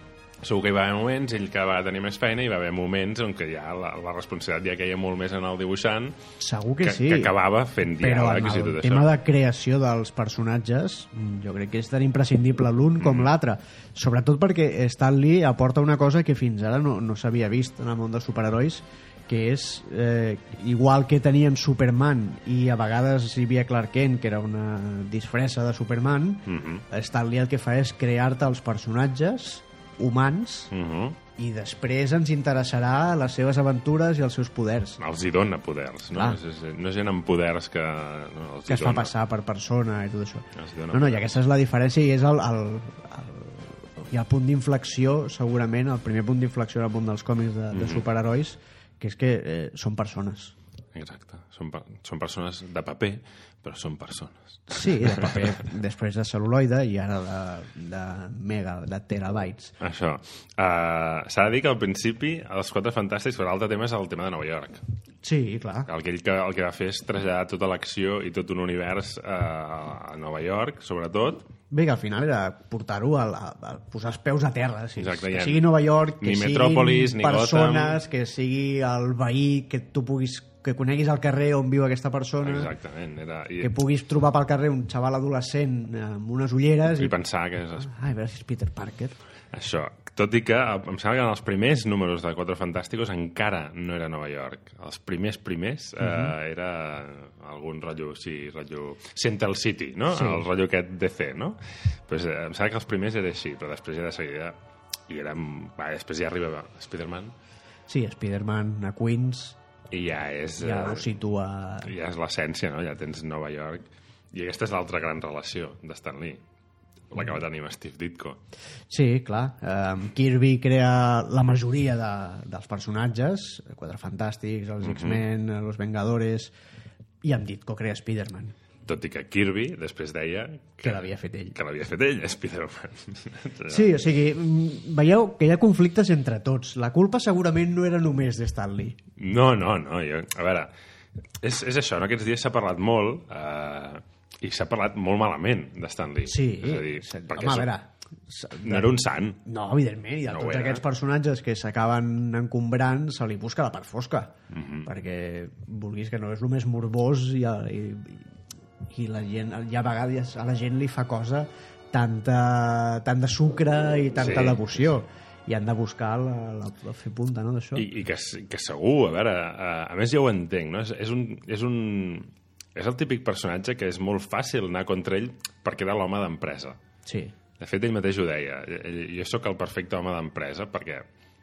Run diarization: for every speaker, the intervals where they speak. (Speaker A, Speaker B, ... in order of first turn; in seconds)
Speaker A: 0.4-6.2, 6.8-9.1, 13.0-13.3, 26.5-26.9, 30.7-31.2, 35.0-39.1, 40.5-41.3, 47.7-48.1, 51.0-55.6, 59.8-64.8, 65.9-71.5, 75.0-78.0, 82.4-83.7, 87.0-87.9, 89.5-104.6, 105.1-107.3, 109.9-111.1, 111.8-116.4, 117.1-118.4, 124.8-125.2, 128.9-133.9, 139.2-140.7, 141.4-147.7, 148.6-149.4, 150.3-150.8, 154.5-154.9, 164.2-164.8, 167.8-176.8, 177.6-181.1
Speaker B: 6.4-7.3, 8.0-30.7, 31.4-35.0, 36.1-36.4, 38.7-50.5, 54.7-59.7, 65.2-65.9, 71.7-82.7, 83.6-87.2, 87.8-89.2, 96.0-96.3, 100.1-100.5, 107.9-109.6, 110.6-111.9, 118.9-126.5, 127.2-128.6, 130.8-131.6, 133.7-139.0, 146.3-148.9, 149.4-154.3, 154.8-158.3, 158.9-167.9, 177.1-177.3